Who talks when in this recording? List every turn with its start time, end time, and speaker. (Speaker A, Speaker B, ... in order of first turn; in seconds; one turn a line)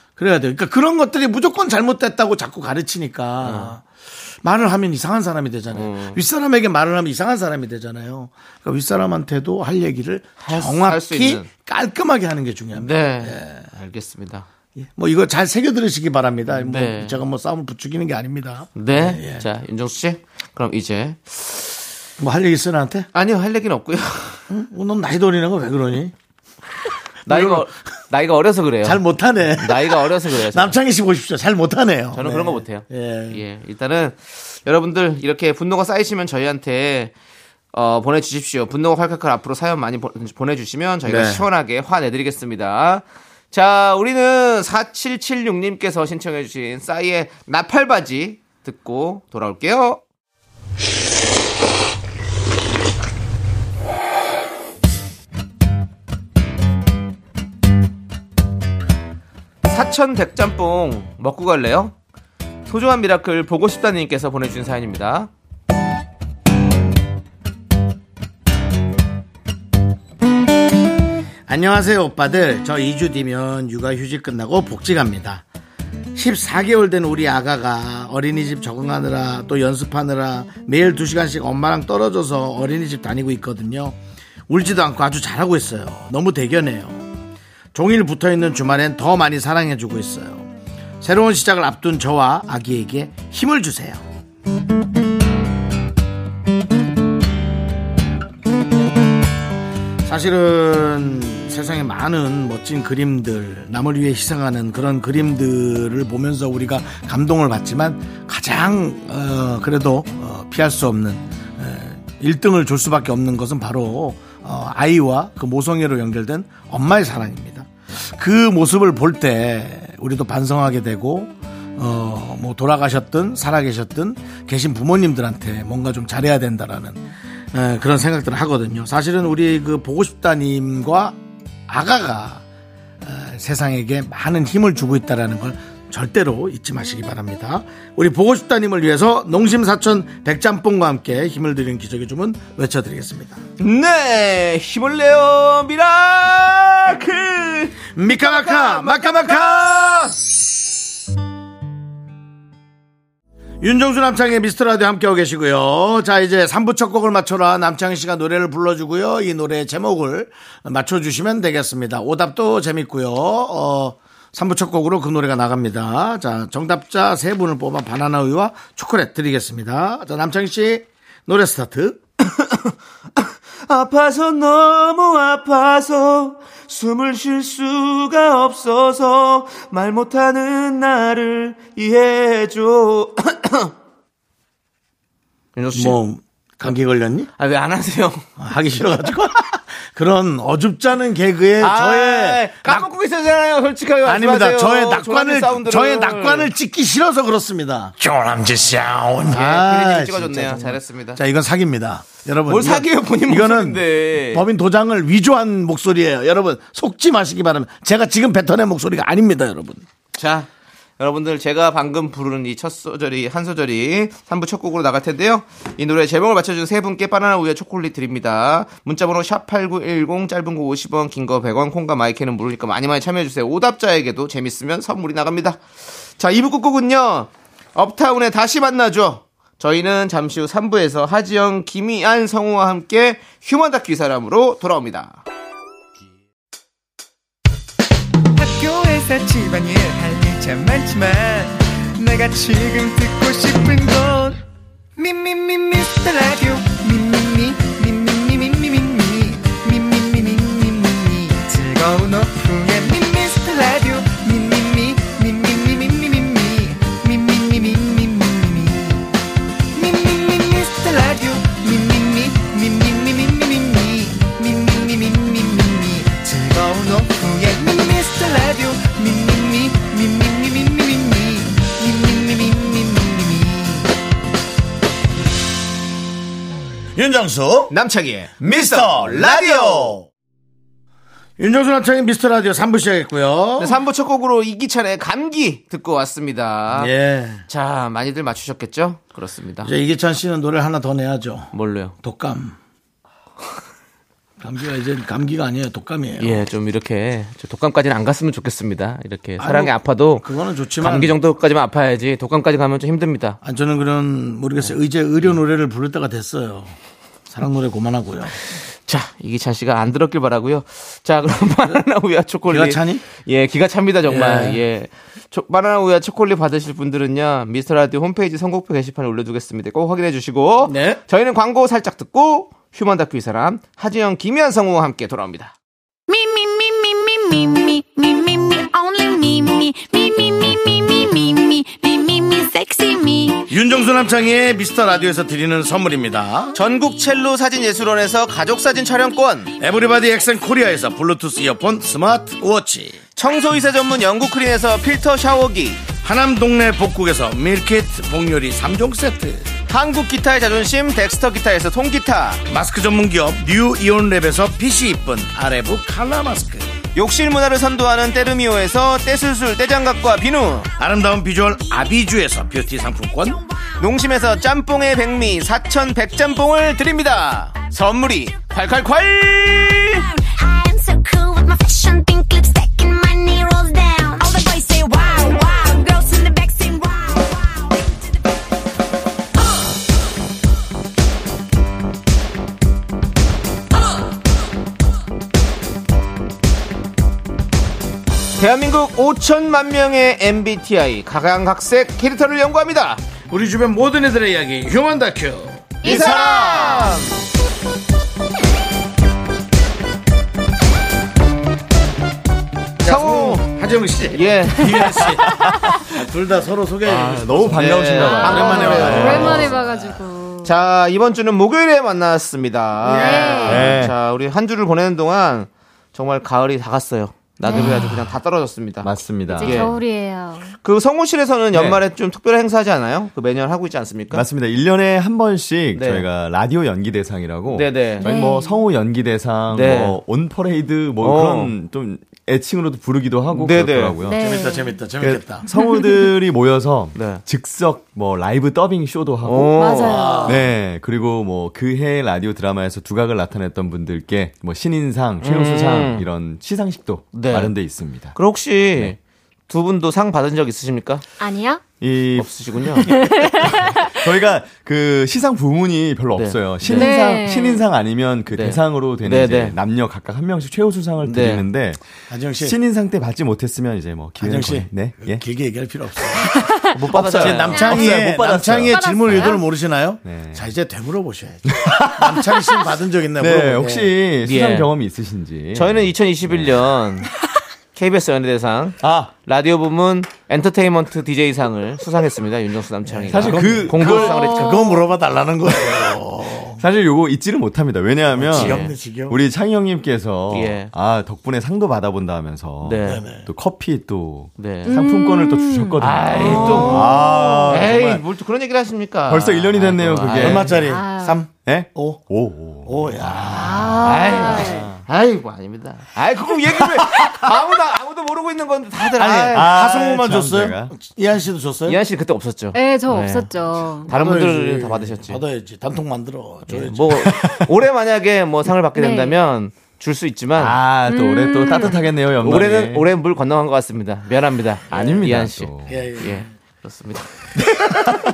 Speaker A: 0.2-13.7
Speaker B: 3.4-3.7
Speaker B: 5.7-6.2
Speaker B: 10.4-11.5
Speaker B: 12.8-14.5
Speaker A: 14.8-19.4
Speaker B: 16.5-17.2
Speaker B: 18.8-21.8
Speaker A: 22.2-23.1
Speaker B: 23.1-24.5
Speaker A: 24.5-26.1
Speaker A: 27.2-27.7
Speaker B: 27.2-29.0
Speaker A: 28.8-33.4
Speaker B: 29.6-30.8
Speaker B: 32.1-37.1
Speaker B: 37.7-50.0
Speaker A: 41.0-41.4
Speaker B: 59.6-61.9
Speaker B: 62.7-65.3
Speaker A: 71.5-75.4
Speaker A: 76.1-84.0
Speaker A: 84.5-87.0
Speaker A: 87.7-90.5
Speaker A: 91.0-94.0
Speaker A: 100.0-132.4
Speaker A: 133.0-143.4
Speaker B: 143.6-149.9
Speaker A: 147.9-150.5
Speaker A: 153.6-172.0
Speaker B: 172.2-183.7
Speaker B: 185.6-186.0
Speaker A: 185.7-187.3
Speaker B: 187.4-188.3
Speaker A: 188.4-192.9
Speaker B: 191.6-196.5
Speaker A: 194.0-209.8
Speaker B: 199.3-201.2
Speaker B: 202.5-204.4
Speaker B: 210.1-235.2
Speaker C: 238.3-244.4
Speaker C: 245.0-259.1
Speaker C: 259.7-273.9
Speaker A: 276.9-277.7
Speaker B: 277.7-280.0
Speaker A: 278.5-280.0
Speaker A: 281.4-283.8
Speaker B: 283.6-286.9
Speaker A: 286.7-287.4
Speaker B: 287.5-289.7
Speaker A: 289.6-292.6
Speaker B: 291.5-291.9
Speaker A: 294.4-296.4
Speaker B: 296.2-300.3
Speaker A: 299.4-301.1
Speaker B: 300.8-303.4
Speaker A: 303.4-306.8
Speaker A: 307.3-308.3
Speaker B: 308.5-325.5
Speaker A: 312.5-313.0
Speaker A: 314.1-314.6
Speaker A: 320.6-321.0
Speaker D: 326.1-333.5
Speaker A: 333.5-336.5
Speaker B: 336.5-339.5
Speaker A: 339.6-343.0
Speaker B: 343.1-345.9
Speaker A: 346.0-349.5
Speaker B: 349.7-352.4
Speaker A: 352.5-356.7
Speaker B: 356.9-360.7
Speaker A: 360.8-363.4
Speaker B: 363.8-370.1
Speaker D: 370.1-378.0
Speaker B: 388.4-393.0
Speaker A: 393.3-396.4
Speaker E: 395.8-397.1
Speaker B: 395.8-397.1
Speaker A: 402.8-410.0
Speaker B: 402.8-403.5
Speaker B: 404.1-405.1
Speaker B: 406.9-409.6
Speaker F: 406.9-409.5
Speaker E: 407.9-410.5
Speaker B: 410.4-419.8
Speaker E: 412.8-413.8
Speaker A: 412.9-413.5
Speaker F: 413.4-413.9
Speaker E: 417.4-418.1
Speaker F: 418.8-419.7
Speaker E: 419.3-420.5
Speaker B: 420.6-424.2
Speaker F: 421.5-421.8
Speaker F: 424.1-434.3
Speaker B: 425.7-426.0
Speaker B: 427.5-428.1
Speaker E: 428.0-428.6
Speaker B: 429.5-430.0
Speaker B: 431.0-431.5
Speaker B: 433.3-434.0
Speaker E: 434.0-434.8
Speaker A: 434.1-435.5
Speaker F: 435.0-439.7
Speaker E: 435.5-436.1
Speaker B: 436.9-437.2
Speaker B: 439.2-440.2
Speaker E: 439.5-440.4
Speaker A: 439.8-440.5
Speaker F: 440.2-448.1
Speaker B: 445.2-446.0
Speaker B: 447.1-447.5
Speaker B: 448.1-449.0
Speaker B: 449.5-451.0
Speaker E: 451.2-451.6
Speaker F: 451.8-452.3
Speaker B: 452.1-452.9
Speaker E: 452.8-454.2
Speaker F: 453.4-465.2
Speaker B: 456.1-456.9
Speaker E: 456.7-457.7
Speaker B: 458.3-459.6
Speaker B: 461.0-461.4
Speaker A: 462.1-462.6
Speaker A: 464.2-466.4
Speaker E: 466.2-466.8
Speaker F: 466.8-469.3
Speaker B: 466.9-467.6
Speaker A: 467.1-473.9
Speaker E: 467.4-468.1
Speaker E: 468.6-469.5
Speaker F: 470.0-470.4
Speaker F: 471.5-472.1
Speaker F: 473.2-476.6
Speaker B: 474.2-474.7
Speaker B: 475.5-477.1
Speaker B: 477.7-484.7
Speaker F: 478.8-479.1
Speaker A: 482.9-486.6
Speaker F: 483.1-484.2
Speaker E: 483.8-484.9
Speaker F: 486.6-498.0
Speaker A: 488.1-489.2
Speaker B: 488.3-488.7
Speaker B: 490.3-490.7
Speaker B: 492.6-493.0
Speaker A: 492.8-493.3
Speaker B: 494.4-494.8
Speaker E: 494.6-497.5
Speaker B: 495.8-500.6
Speaker A: 496.3-496.6
Speaker A: 497.6-497.9
Speaker F: 499.1-500.6
Speaker A: 500.1-502.1
Speaker E: 500.5-501.3
Speaker F: 501.3-503.3
Speaker A: 502.6-503.8
Speaker E: 503.3-504.7
Speaker B: 503.8-509.5
Speaker F: 504.4-504.8
Speaker A: 509.0-511.8
Speaker F: 509.3-510.7
Speaker B: 511.7-513.3
Speaker E: 512.5-513.9
Speaker B: 513.8-515.2
Speaker A: 513.9-517.1
Speaker B: 516.5-520.6
Speaker F: 517.0-517.4
Speaker E: 518.7-519.2
Speaker F: 520.4-522.9
Speaker E: 520.9-521.9
Speaker B: 522.2-527.9
Speaker F: 524.7-525.8
Speaker A: 525.7-526.3